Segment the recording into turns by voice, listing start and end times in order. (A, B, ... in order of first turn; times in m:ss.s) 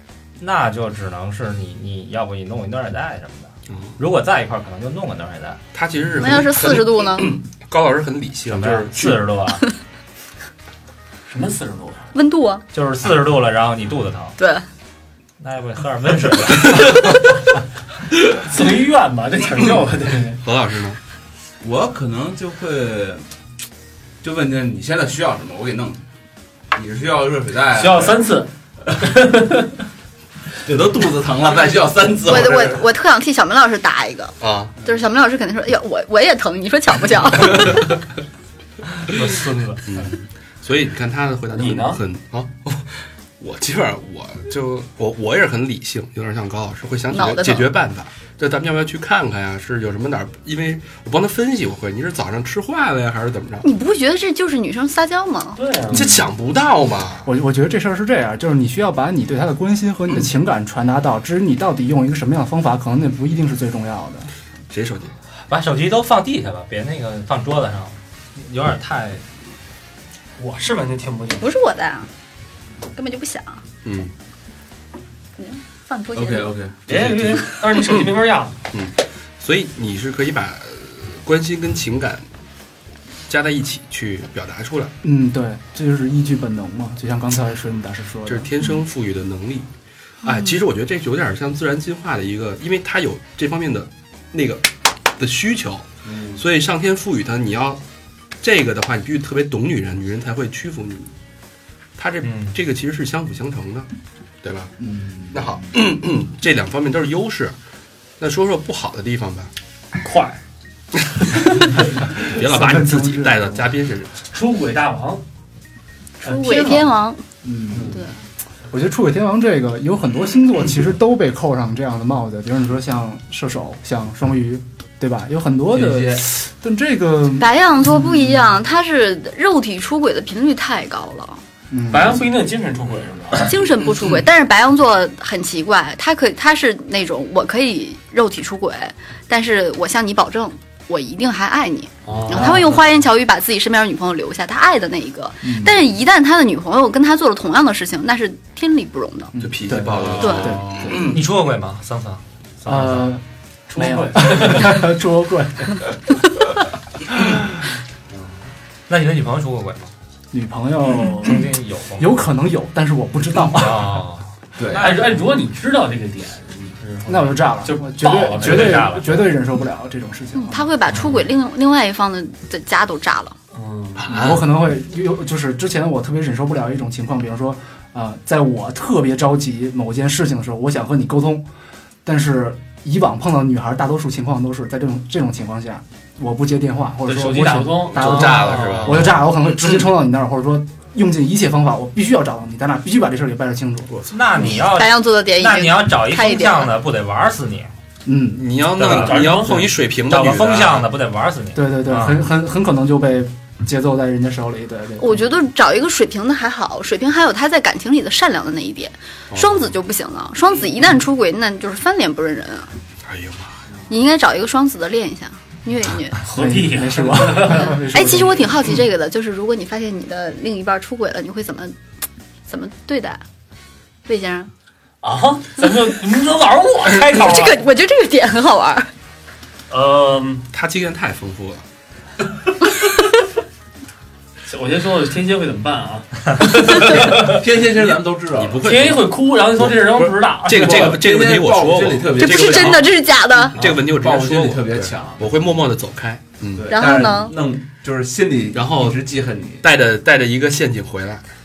0:00.4-0:05.6 A
0:03.7-0:03.9 B
0:05.7-0:09.2 B
0:06.2-0:07.4 C
0:08.5-0:09.6 A
0:11.3-0:12.1 D
0:12.1-0:12.6 C
0:12.7-0:14.4 A
0:14.4-0:14.6 C
0:15.4-0:17.1 A
0:18.2-0:20.4 D
0:20.4-0:21.0 B
0:21.6-0:23.2 E
0:24.2-0:26.0 E
0:26.7-0:28.2 E
0:27.7-0:29.7 D
0:30.6-0:32.8 E
0:32.2-0:37.9 C
0:34.4-0:34.8 B
0:39.2-0:39.8 D
0:39.8-0:53.6 B
0:41.5-0:42.0 D
0:47.1-0:47.7 C
0:53.6-0:55.6 C
0:55.6-0:56.2 D
0:55.9-0:57.3 B
0:55.9-0:56.2 F
0:57.2-1:04.3 F
1:04.7-1:05.1 B
1:05.5-1:09.2 A
1:10.4-1:11.5 D
1:11.4-1:12.1 C
1:12.9-1:13.6 C
1:13.8-1:14.1 B
1:15.4-1:16.5 C
1:16.1-1:17.5 E
1:16.8-1:18.6 D
1:18.7-1:22.2 B
1:23.3-1:24.9 B
1:25.0-1:28.5 F
1:28.2-1:29.7 B
1:30.2-1:37.8 B
1:30.2-1:30.5 C
1:36.1-1:36.4 E
1:38.4-1:41.1 B
1:42.0-1:43.9 B
1:44.4-1:44.7 B
1:44.8-1:45.6 F
1:45.3-1:47.5 B
1:48.2-1:49.5 B
1:50.0-1:50.4 D
1:52.1-1:53.7 F
1:52.2-1:54.1 B
1:54.3-1:55.2 D
1:56.2-1:56.9 D
1:56.2-1:57.2 C
1:57.4-1:58.0 F
1:57.9-1:58.1 C
1:58.7-2:07.5 F
2:05.7-2:06.2 E
2:07.4-2:11.4 C
2:11.7-2:12.3 F
2:11.9-2:13.6 D
2:13.4-2:29.3 C
2:22.0-2:22.8 D
2:22.3-2:22.7 F
2:25.4-2:25.8 F
2:29.3-2:31.2 F
2:29.4-2:31.2 B
2:30.2-2:30.6 C
2:30.4-2:30.9 D
2:31.0-2:33.1 A
2:32.6-2:33.2 F
2:33.7-2:34.9 D
2:33.8-2:36.0 F
2:37.1-2:37.4 F
2:38.9-2:39.9 A
2:40.3-2:44.0 F
2:41.2-2:42.2 A
2:43.4-2:45.1 A
2:44.6-2:45.0 E
2:44.8-2:49.1 D
2:47.1-2:50.7 F
2:48.1-2:49.2 A
2:50.3-2:53.4 C
2:53.5-2:54.2 D
2:54.1-3:01.4 F
3:02.0-3:13.9 F
3:07.0-3:09.2 D
3:07.9-3:09.2 B
3:14.1-3:17.7 A
3:14.4-3:16.7 C
3:18.0-3:18.4 F
3:18.3-3:20.9 B
3:18.8-3:19.5 A
3:18.9-3:19.8 D
3:20.1-3:22.2 A
3:21.5-3:25.2 F
3:25.0-3:32.7 C
3:29.3-3:29.7 B
3:33.0-3:33.6 B
3:33.9-3:36.2 C
3:36.2-3:37.8 D
3:36.3-3:38.5 F
3:37.5-3:41.7 C
3:42.5-3:43.2 C
3:44.0-3:44.5 C
3:45.0-3:47.6 D
3:47.0-3:48.9 C
3:49.7-3:50.4 D
3:50.5-3:51.6 B
3:54.5-3:57.4 D
3:57.2-3:58.8 E
3:58.3-4:02.8 B
3:58.6-4:01.0 D
4:00.5-4:02.9 E
4:02.2-4:03.6 C
4:03.5-4:06.7 B
4:03.6-4:05.4 E
4:06.5-4:09.6 E
4:06.7-4:07.4 C
4:08.5-4:09.0 B
4:09.6-4:11.2 B